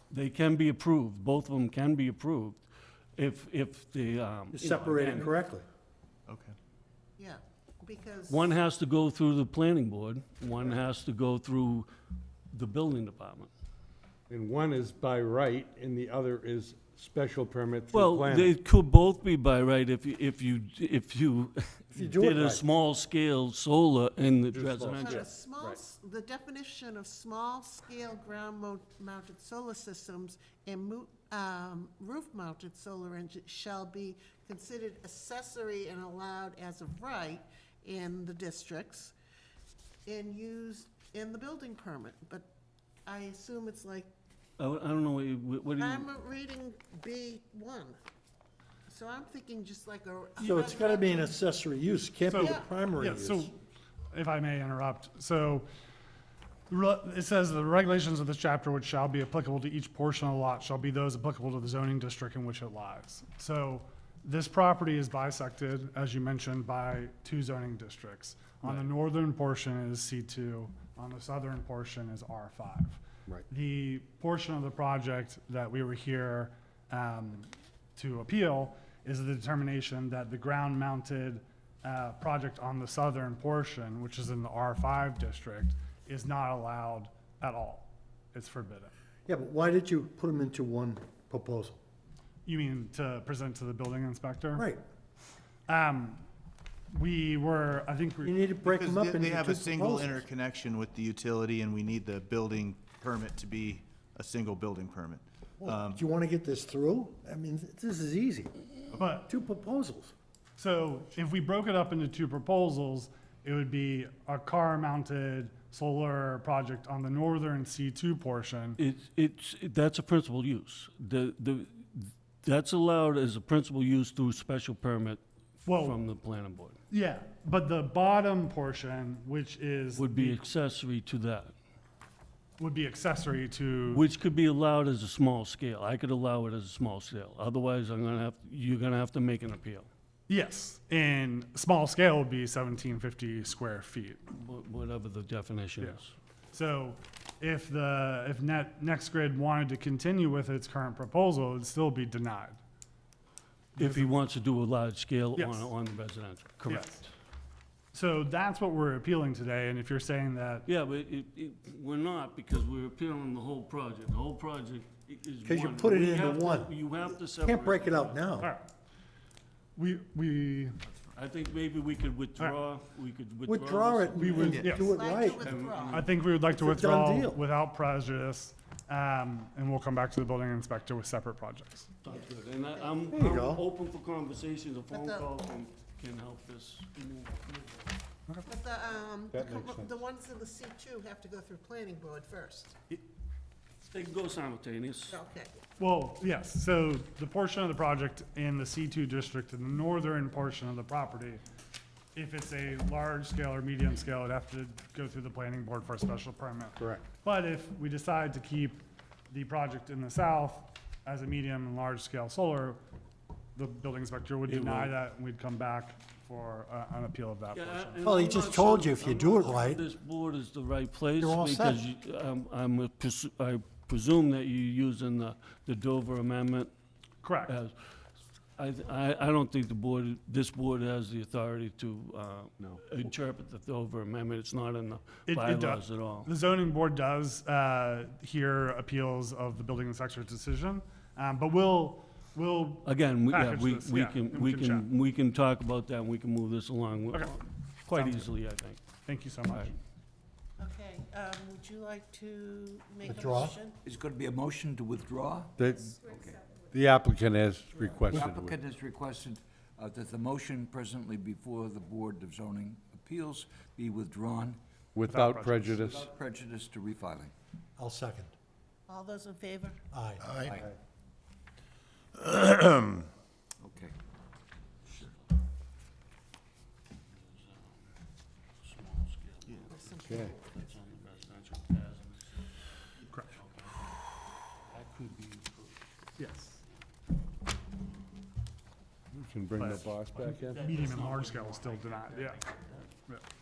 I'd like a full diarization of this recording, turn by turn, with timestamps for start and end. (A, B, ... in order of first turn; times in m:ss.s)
0:00.1-0:02.6 A
0:03.2-0:05.3 A
0:04.5-0:05.6 B
0:06.3-0:06.5 C
0:07.2-0:08.5 D
0:08.3-0:11.9 A
0:12.5-0:13.5 A
0:14.3-0:18.6 E
0:17.9-0:25.3 A
0:21.9-0:22.6 B
0:24.5-0:25.8 E
0:24.9-0:39.1 D
0:40.0-0:42.5 D
0:43.0-0:44.1 D
0:44.6-0:46.1 A
0:45.8-0:48.0 D
0:48.9-0:51.3 D
0:50.4-0:53.5 B
0:52.3-0:53.6 F
0:52.4-0:52.7 D
0:54.1-0:55.7 F
0:56.7-1:28.9 F
1:29.2-1:31.8 B
1:32.4-1:34.6 F
1:34.5-1:34.8 B
1:35.7-1:36.2 F
1:36.9-1:38.7 F
1:38.2-1:40.2 B
1:39.0-1:45.9 C
1:45.6-1:48.5 B
1:48.9-1:49.3 F
1:49.2-1:50.1 B
1:50.6-1:58.8 F
1:58.8-2:06.8 A
2:05.6-2:06.0 F
2:06.9-2:10.4 F
2:10.0-2:11.5 A
2:12.6-2:14.0 F
2:13.9-2:19.9 A
2:20.3-2:24.2 F
2:24.3-2:26.1 A
2:26.5-2:32.6 F
2:33.8-2:34.1 F
2:33.8-2:37.1 A
2:35.4-2:35.7 F
2:36.6-2:37.0 F
2:37.9-2:40.7 F
2:40.6-2:48.2 A
2:45.4-2:48.5 B
2:48.4-2:48.7 F
2:49.8-2:50.8 F
2:51.1-2:54.7 A
2:53.4-2:55.5 B
2:54.1-2:55.0 F
2:54.7-2:56.1 D
2:55.4-2:56.1 A
2:55.8-3:02.0 F
2:56.5-2:57.4 B
3:02.0-3:07.9 A
3:02.1-3:03.1 D
3:03.1-3:03.6 B
3:04.9-3:05.3 D
3:08.4-3:12.8 D
3:09.3-3:09.9 E
3:13.9-3:15.2 A
3:15.1-3:15.6 D
3:15.8-3:21.4 F
3:22.1-3:32.8 F
3:33.5-3:38.0 F
3:34.5-3:35.0 A
3:37.5-3:46.7 A
3:38.0-3:39.8 B
3:41.2-3:41.8 B
3:47.2-3:47.6 F
3:47.5-3:47.7 A
3:48.6-3:56.3 A
3:55.3-4:04.9 F
4:02.8-4:08.8 A
4:07.1-4:08.3 F
4:09.0-4:09.8 F
4:10.6-4:13.8 D
4:13.1-4:13.6 B
4:13.8-4:16.6 G
4:15.6-4:15.9 E
4:16.7-4:18.6 E
4:18.0-4:24.6 G
4:24.9-4:26.1 E
4:25.0-4:25.9 F
4:25.9-4:27.3 G
4:27.8-4:28.3 B
4:28.9-4:29.8 D
4:29.9-4:30.4 B
4:30.3-4:30.7 G
4:32.3-4:33.1 E
4:33.6-4:33.9 G
4:37.1-4:37.9 A
4:38.6-4:43.8 A
4:39.7-4:40.4 D
4:40.0-4:40.3 E
4:44.6-4:45.8 A
4:46.2-4:46.6 F
4:49.1-4:50.6 E
4:49.6-4:49.8 F
4:50.1-4:52.9 A
4:50.6-4:52.4 F